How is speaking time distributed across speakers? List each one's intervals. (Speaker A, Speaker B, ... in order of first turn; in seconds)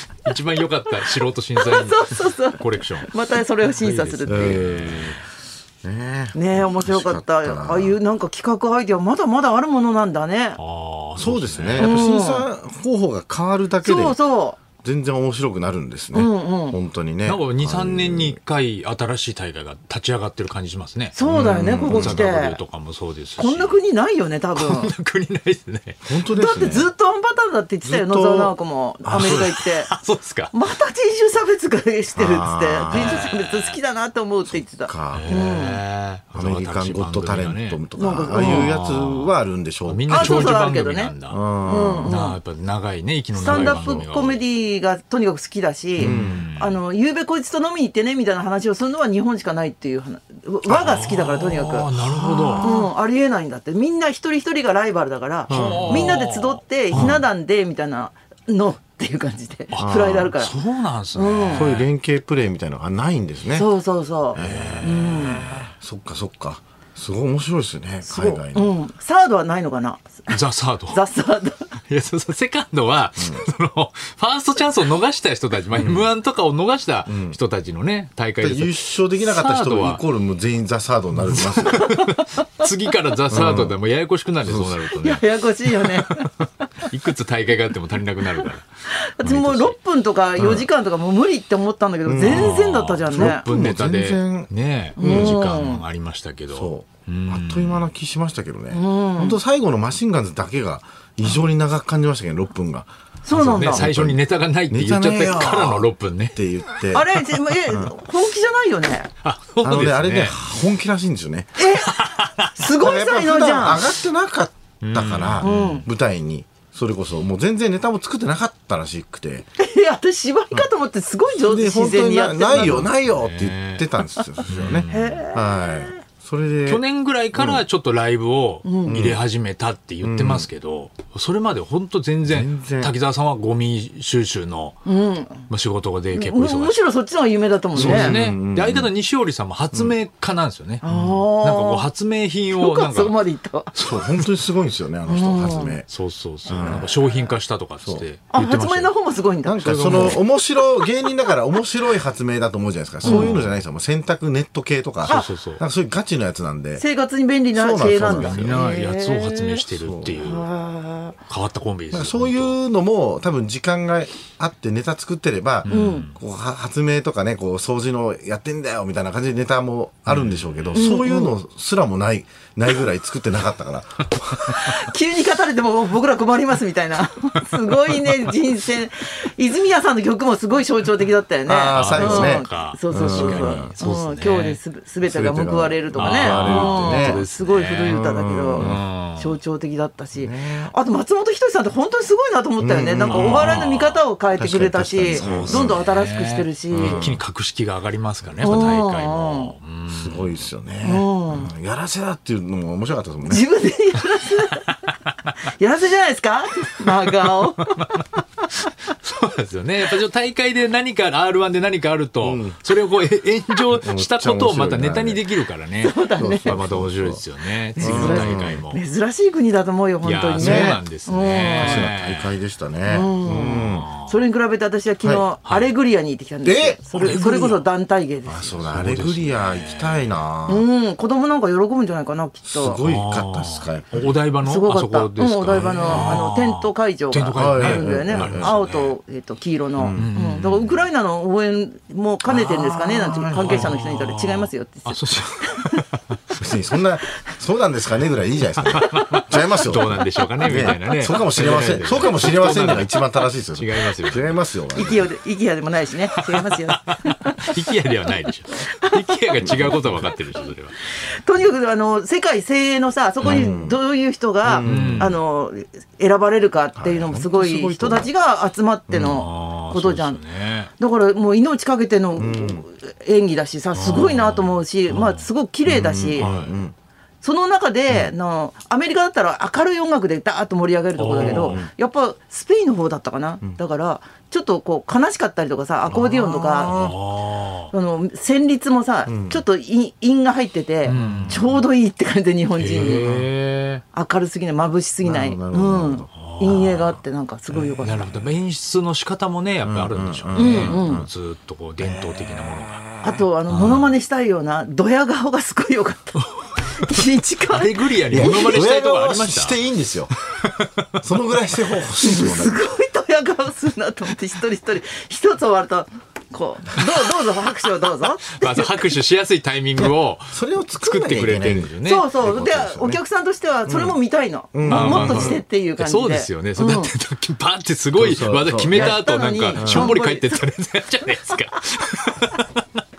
Speaker A: 0.2-5.2, 10.6-12.1, 17.2-21.3, 21.8-23.8, 24.6-26.0, 29.2-30.5, 32.9-33.8, 35.1-37.8, 38.3-41.4, 42.0-44.4, 46.0-46.8, 50.8-52.8, 55.5-57.2, 59.7-61.9, 64.4-65.7, 70.3-71.0, 71.9-80.0, 81.1-88.7, 89.2-89.8, 92.2-97.9, 103.3-106.4, 109.2-110.4, 111.9-112.5, 114.8-115.8, 123.0-123.8, 124.5-125.2, 126.7-134.9, 135.5-136.8, 137.8-143.2, 143.7-144.5, 145.9-148.9, 149.6-150.2, 153.0-153.6, 155.1-155.6, 158.0-160.5, 161.3-162.6, 165.7-166.1, 170.1-170.8, 181.7-184.6, 186.0-188.0, 188.6-189.4, 193.1-194.0, 195.1-200.5, 206.9-208.0, 208.9-218.8, 220.0-222.3, 223.5-224.2, 225.4-225.7, 228.6-230.2, 232.8-239.0, 239.9-240.9, 243.3-246.5, 248.6-254.9, 256.1-260.8, 264.6-265.2, 268.9-270.7, 273.7-275.3, 276.1-276.6, 281.0-281.6, 286.6-287.7, 290.8-291.6, 292.6-293.8, 296.1-297.0, 297.5-302.9, 303.5-303.9, 306.8-309.6, 310.4-310.9, 318.3-322.1, 324.7-332.6
Speaker B: 1.6-4.7, 6.3-10.6, 11.8-12.5, 13.8-14.6, 16.1-16.8, 21.1-22.6, 23.4-24.9, 26.3-29.9, 30.5-35.8, 38.0-38.7, 40.1-41.1, 41.6-42.4, 43.3-51.9, 52.6-60.5, 61.1-61.7, 63.5-65.6, 68.1-70.4, 70.9-71.7, 85.0-86.3, 88.4-93.4, 95.0-95.8, 98.7-99.4, 103.2-103.8, 106.9-109.1, 111.6-112.0, 112.6-113.9, 115.4-115.9, 119.6-122.9, 124.9-126.0, 128.7-129.0, 134.9-135.5, 136.1-138.2, 140.8-141.9, 142.5-143.7, 145.1-145.8, 148.3-150.2, 153.1-153.3, 156.8-159.6, 160.2-161.2, 165.7-166.1, 170.8-171.3, 174.5-197.0, 198.4-199.5, 200.8-201.5, 203.3-204.7, 205.5-208.5, 215.8-216.6, 217.8-221.9, 222.9-228.6, 230.5-232.8, 234.4-245.8, 254.8-257.5, 258.6-259.7, 260.9-270.2, 270.8-276.3, 277.2-286.7, 287.7-293.1, 293.9-298.1, 300.4-301.1, 303.0-308.6, 312.0-318.9, 321.8-326.9, 328.7-330.4
Speaker C: 4.3-5.2, 5.8-8.0, 11.2-14.2, 14.8-18.4, 21.3-22.2, 26.1-26.9, 27.8-29.6, 32.2-33.3, 34.5-35.5, 36.3-40.7, 41.3-42.1, 43.4-44.1, 46.0-46.4, 50.7-50.9, 52.0-52.8, 55.5-56.2, 56.9-57.2, 59.8-60.3, 61.5-63.7, 64.3-68.7, 73.2-73.4, 75.7-76.1, 77.1-77.4, 78.4-82.0, 83.3-83.8, 84.4-84.8, 90.4-90.7, 92.0-95.4, 96.5-107.1, 109.6-111.6, 112.7-119.5, 121.3-126.8, 127.3-127.6, 128.9-129.2, 130.0-130.5, 132.2-132.9, 137.8-138.9, 143.8-145.9, 146.5-146.9, 149.4-156.8, 157.5-158.6, 159.7-160.3, 161.9-174.5, 181.5-183.7, 185.0-187.2, 187.9-188.8, 190.2-190.7, 192.6-193.7, 194.4-195.8, 196.7-197.2, 198.4-198.8, 199.9-203.4, 212.2-212.6, 213.7-215.2, 216.2-217.2, 217.8-218.6, 220.4-220.8, 221.5-223.9, 226.4-227.6, 228.3-230.7, 232.5-234.1, 235.5-236.2, 237.3-238.6, 239.8-240.1, 242.3-243.8, 246.4-255.1, 259.5-260.0, 263.2-263.8, 264.4-265.2, 266.8-268.1, 272.2-272.6, 275.6-276.8, 281.1-281.7, 285.9-286.9, 289.1-289.4, 290.9-291.4, 292.8-293.3, 295.0-296.1, 299.6-301.1, 308.1-310.1, 311.0-312.6, 319.8-323.0, 323.6-324.0, 324.5-325.4, 328.0-329.0, 329.6-330.0